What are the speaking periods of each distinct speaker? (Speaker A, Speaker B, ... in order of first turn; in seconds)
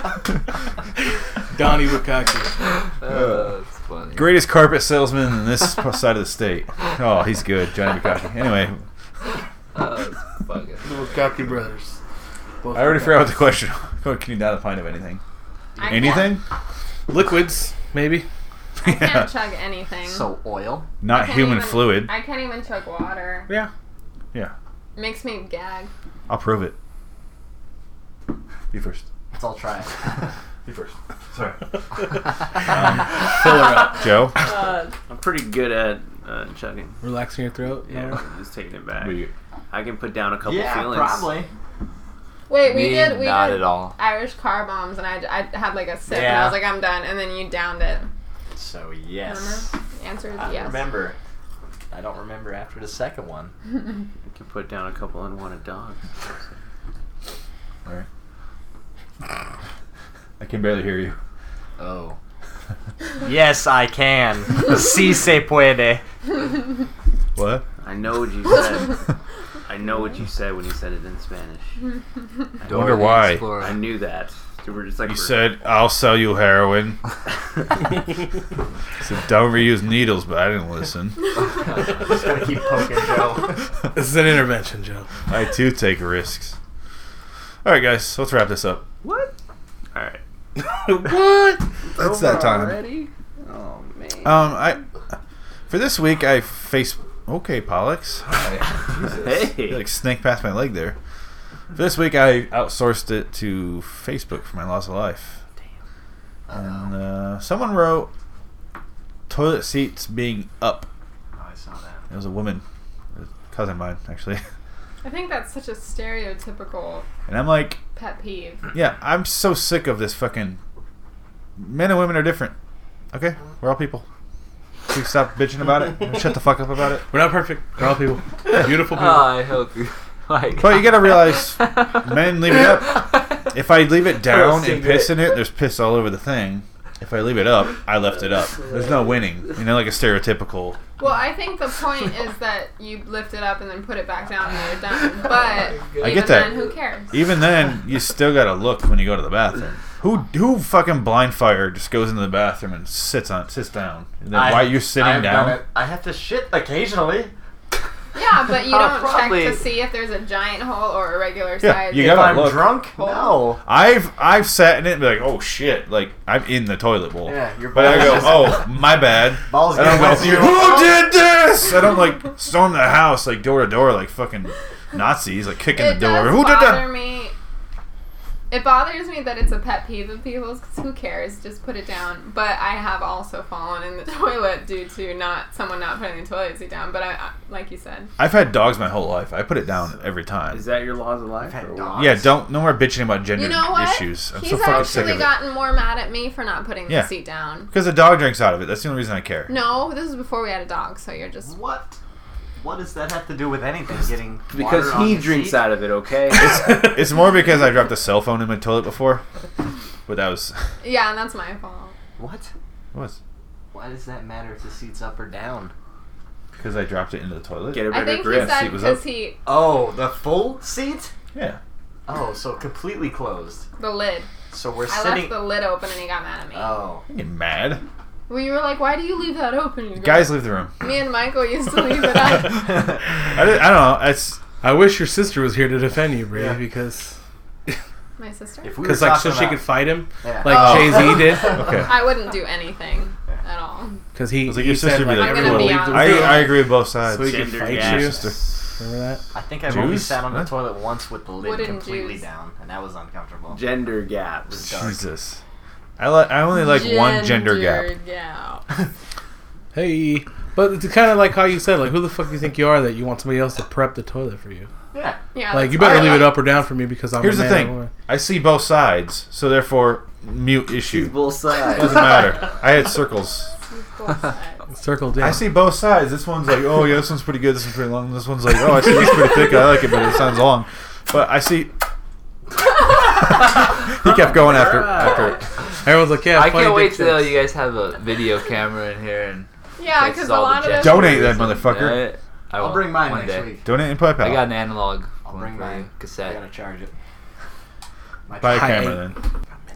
Speaker A: 1.5-2.6, 10.9-11.8, 12.6-13.4, 17.1-18.3, 32.9-34.1, 37.0-38.2, 83.9-85.1, 90.6-91.6, 127.0-129.4, 234.6-237.1, 238.8-241.6, 244.1-249.2, 259.7-264.7, 265.5-267.9, 274.7-275.5, 285.8-287.4, 298.5-299.2
Speaker B: 2.9-4.3, 9.7-11.2, 34.4-34.9, 42.6-44.0, 72.6-73.9, 81.7-82.0, 98.2-99.2, 128.7-133.4, 134.3-135.4, 145.2-146.6, 158.7-159.5, 286.3-293.6, 294.2-296.4
Speaker C: 3.1-3.5, 4.1-8.8, 12.7-15.2, 15.9-16.4, 18.8-19.3, 21.0-22.1, 26.3-26.8, 28.7-29.0, 30.6-31.6, 32.6-33.2, 33.8-34.4, 39.0-39.3, 60.4-61.2, 67.3-67.7, 72.7-73.5, 75.0-77.0, 79.0-81.3, 85.3-86.6, 87.6-88.9, 92.0-92.8, 94.2-94.8, 95.7-98.3, 99.6-101.0, 101.7-105.4, 106.5-108.1, 109.3-110.9, 112.1-112.6, 113.1-114.4, 117.3-117.8, 118.7-120.6, 121.6-122.5, 123.1-124.0, 124.9-127.1, 130.6-140.8, 146.0-155.6, 161.6-162.9, 163.6-176.9, 188.2-190.6, 192.0-195.3, 197.7-199.5, 206.3-209.2, 210.1-210.6, 212.9-213.2, 216.5-219.0, 227.1-227.8, 230.0-230.7, 232.2-234.4, 240.5-242.0, 244.4-248.5, 249.7-250.5, 254.6-255.4, 256.0-257.9, 265.8-266.1, 267.2-273.5, 275.2-281.7, 282.8-285.4, 290.7-292.1, 293.6-294.5, 298.4-299.2
Speaker D: 10.9-11.9, 15.8-16.3, 20.0-20.9, 29.3-30.3, 40.4-41.5, 46.1-46.6, 48.5-49.6, 50.3-51.1, 51.9-53.5, 61.8-62.2, 63.2-66.0, 81.8-83.6, 106.5-106.9, 111.3-112.0, 154.3-157.3, 161.9-163.6, 167.2-168.8, 169.4-171.1, 191.4-192.3, 201.4-202.0, 202.6-205.8, 212.2-212.5, 213.7-215.7, 219.4-221.1, 222.1-223.7, 224.5-225.5, 226.5-227.0, 232.7-233.0, 236.3-236.6, 238.6-241.8, 249.3-253.9, 254.5-255.0, 264.9-265.2, 292.6-293.7, 295.2-296.9, 298.3-298.9
Speaker E: 15.8-16.4, 18.8-20.3, 21.1-23.5, 24.9-25.9, 42.5-48.1, 49.2-50.9, 115.0-117.0, 117.9-118.7, 141.0-147.2, 158.1-163.5, 175.7-177.3, 178.5-188.1, 193.3-197.7, 199.5-201.5, 210.8-211.9, 217.9-219.4, 223.8-224.3, 224.9-226.8, 228.3-233.0, 238.2-238.8, 240.9-244.0, 245.1-246.6, 251.4-252.2, 256.5-258.6, 265.3-266.4, 273.7-274.6, 289.8-291.5
Speaker F: 35.1-37.0, 37.9-41.3, 54.2-56.6, 67.8-69.0, 69.7-71.8, 72.7-75.4, 89.0-89.3, 89.9-90.2, 91.9-94.3, 99.0-99.8, 190.5-192.1, 204.5-206.8, 217.7-218.7, 247.1-248.4, 253.5-254.6, 270.9-272.4, 284.0-285.4